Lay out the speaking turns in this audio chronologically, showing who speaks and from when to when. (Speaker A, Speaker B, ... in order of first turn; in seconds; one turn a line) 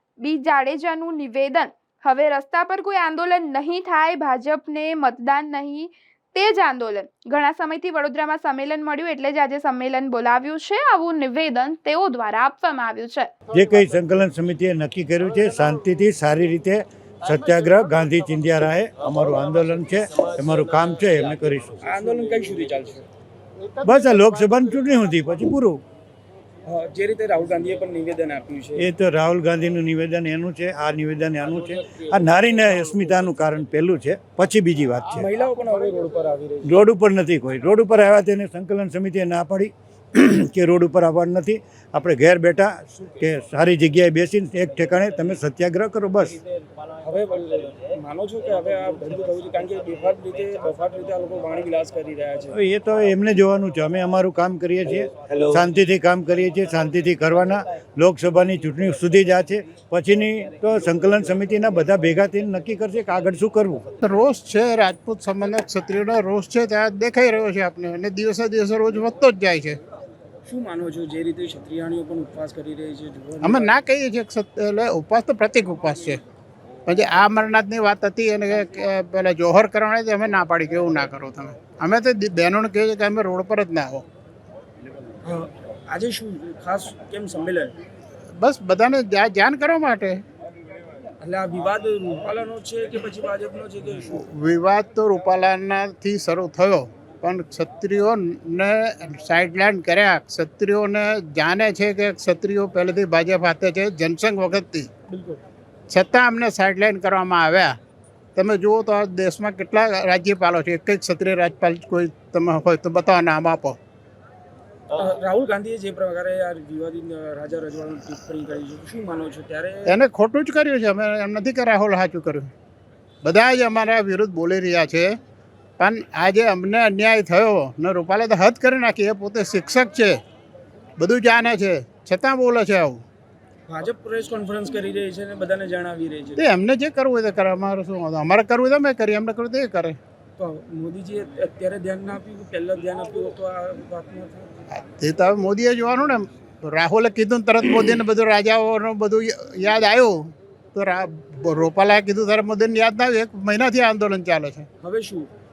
Speaker A: 0.2-13.3
Speaker B: 13.5-21.8
Speaker C: 21.8-23.1
Speaker D: 23.7-24.3
Speaker B: 23.8-25.8
Speaker C: 26.6-28.9
Speaker B: 28.8-35.3
Speaker C: 35.1-36.8
Speaker B: 36.6-46.4
Speaker C: 47.0-52.5
Speaker B: 52.5-63.8
Speaker D: 64.0-69.8
Speaker C: 70.5-73.7
Speaker D: 73.4-76.2
Speaker D: 76.8-84.0
Speaker C: 85.2-87.7
Speaker D: 88.4-90.2
Speaker C: 91.2-94.1
Speaker D: 94.0-104.9
Speaker C: 105.1-105.4
Speaker D: 105.9-107.8
Speaker D: 108.3-113.8
Speaker C: 114.9-120.0
Speaker D: 119.8-122.5
Speaker D: 123.2-125.2
Speaker D: 125.8-130.2
Speaker D: 131.0-133.0
Speaker C: 133.7-136.4
Speaker D: 136.4-140.0
Speaker C: 140.4-144.5
Speaker D: 144.7-154.7
Speaker C: 154.8-155.3